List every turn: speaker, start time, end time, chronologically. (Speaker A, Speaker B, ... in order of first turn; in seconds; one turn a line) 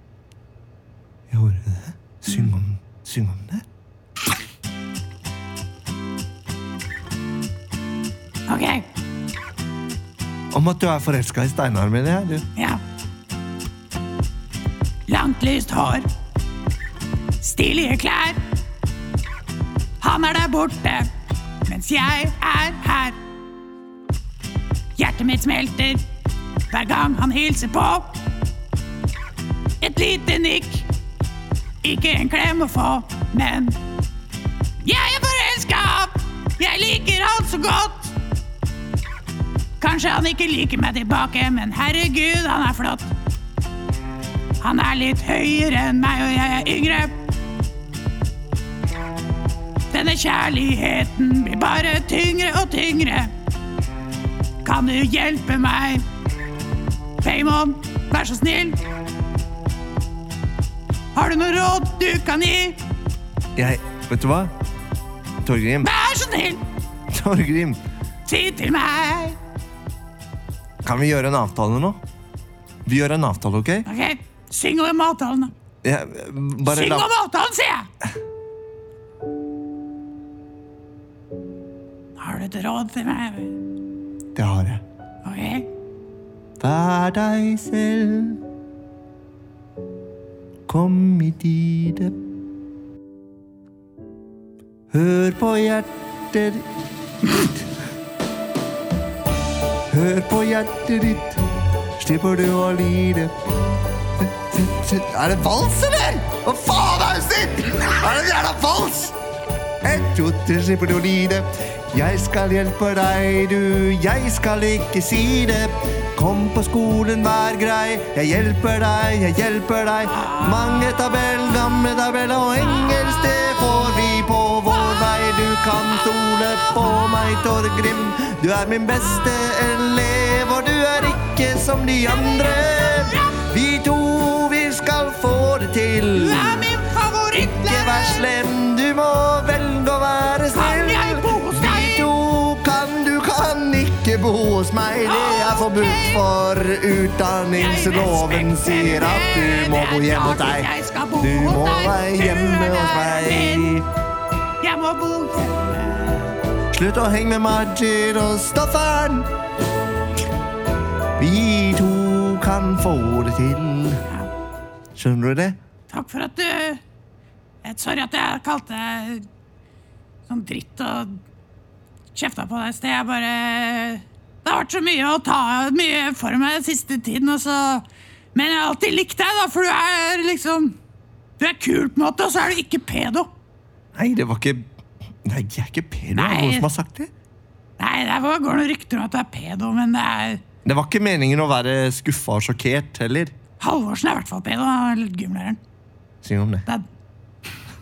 Speaker A: 1.3-3.6
Speaker B: 8.5-8.8
Speaker A: 10.5-12.4
Speaker B: 15.1-16.0
Speaker B: 17.4-18.4
Speaker B: 20.0-21.1
Speaker B: 21.6-23.2
Speaker B: 24.9-26.0
Speaker B: 26.7-28.2
Speaker B: 29.8-30.9
Speaker B: 31.8-33.8
Speaker B: 34.8-38.1
Speaker B: 39.8-43.1
Speaker B: 44.6-47.1
Speaker B: 49.9-53.3
Speaker B: 54.6-56.0
Speaker B: 57.2-58.8
Speaker B: 61.1-62.8
Speaker A: 63.5-64.5
Speaker A: 65.4-65.9
Speaker B: 65.8-66.6
Speaker A: 67.1-67.8
Speaker B: 68.2-69.3
Speaker A: 70.8-72.0
Speaker A: 72.8-73.9
Speaker B: 73.8-75.5
Speaker A: 75.8-77.1
Speaker B: 76.7-77.9
Speaker B: 82.2-83.5
Speaker A: 84.3-84.8
Speaker B: 85.2-85.7
Speaker A: 86.6-88.4
Speaker A: 90.7-92.1
Speaker A: 94.9-96.7
Speaker A: 99.9-101.4
Speaker A: 102.0-103.3
Speaker A: 104.2-109.1
Speaker A: 109.8-136.7
Speaker B: 120.2-120.8
Speaker B: 132.3-133.4
Speaker B: 136.1-138.2
Speaker A: 137.3-153.8
Speaker B: 140.5-142.1
Speaker B: 145.0-146.2
Speaker B: 147.5-153.7
Speaker B: 154.6-156.3
Speaker A: 156.7-159.3
Speaker A: 161.2-164.0
Speaker A: 164.9-165.6
Speaker B: 165.9-166.8
Speaker B: 167.6-169.2
Speaker B: 170.3-171.2
Speaker B: 172.1-180.8
Speaker B: 181.4-183.3
Speaker A: 183.9-184.7
Speaker A: 185.2-187.1
Speaker B: 186.1-186.7
Speaker B: 187.8-190.4
Speaker A: 190.6-193.3
Speaker B: 193.6-195.6
Speaker A: 196.2-196.7